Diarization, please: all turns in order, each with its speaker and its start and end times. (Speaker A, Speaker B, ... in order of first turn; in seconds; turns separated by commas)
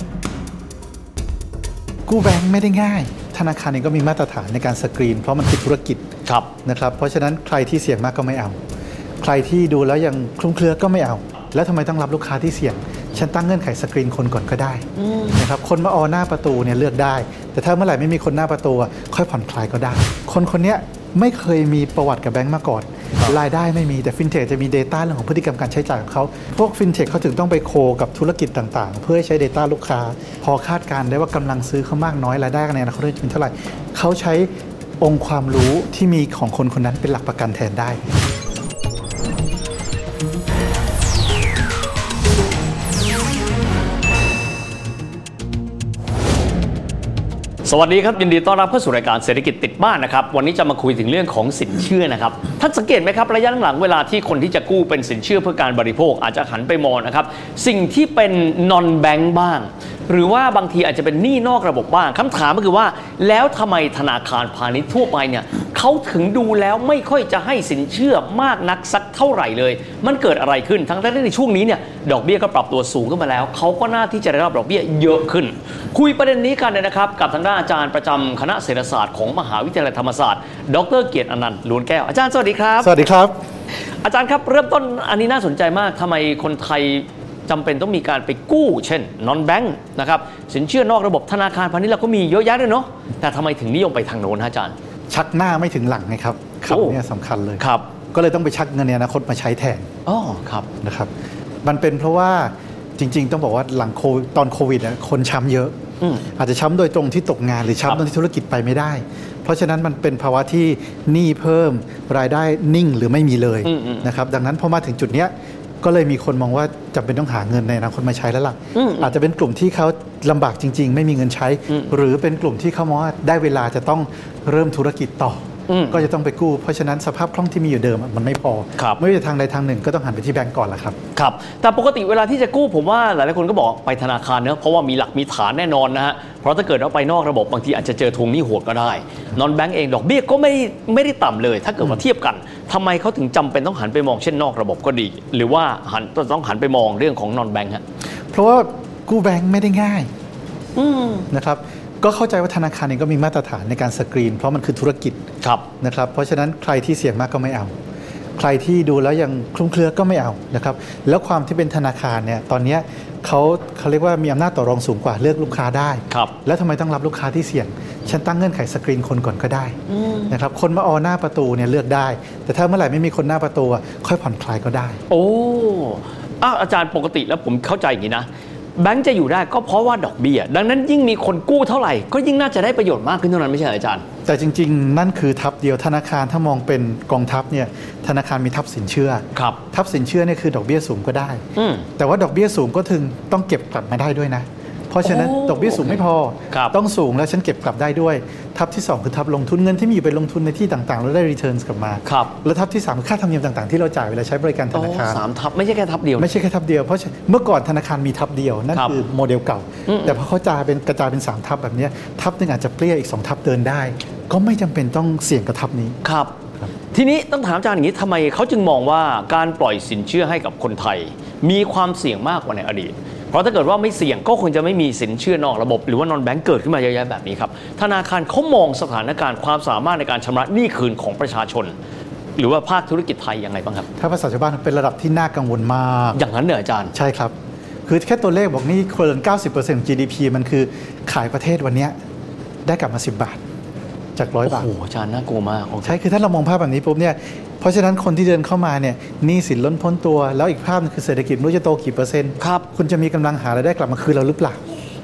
Speaker A: 2.1-6.0, Speaker B: 6.2-6.5, Speaker A: 6.7-8.6, Speaker A: 9.2-34.5, Speaker B: 15.0-15.4, Speaker A: 35.0-38.1, Speaker B: 47.6-83.0, Speaker A: 82.8-83.4, Speaker B: 84.0-94.8, Speaker A: 95.1-99.9, Speaker B: 96.7-97.0, Speaker B: 97.6-97.9, Speaker B: 100.1-100.7, Speaker A: 100.8-101.1, Speaker A: 101.6-105.8, Speaker A: 106.3-131.0, Speaker B: 113.7-114.1, Speaker B: 118.8-119.1, Speaker B: 121.7-121.9, Speaker B: 125.7-126.1, Speaker B: 131.2-147.8, Speaker A: 148.3-150.1, Speaker B: 150.8-151.3, Speaker A: 151.3-155.2, Speaker B: 155.4-155.7, Speaker A: 155.8-157.7, Speaker A: 158.4-169.8, Speaker B: 169.9-170.4, Speaker A: 170.3-175.0, Speaker B: 175.1-184.1, Speaker A: 184.2-191.4, Speaker B: 189.3-189.6, Speaker B: 191.6-191.9, Speaker A: 192.0-205.2, Speaker B: 195.0-196.8, Speaker B: 202.1-202.3, Speaker B: 204.7-206.3, Speaker A: 206.2-216.0, Speaker B: 208.7-209.0, Speaker B: 209.9-210.2, Speaker B: 216.0-216.4, Speaker B: 216.9-231.8, Speaker B: 232.4-233.9, Speaker A: 234.0-236.2, Speaker B: 236.1-236.9, Speaker A: 236.9-237.3, Speaker A: 237.9-241.9, Speaker A: 242.7-243.4, Speaker A: 244.2-244.7, Speaker B: 244.4-246.0, Speaker A: 245.8-254.6, Speaker B: 252.4-252.7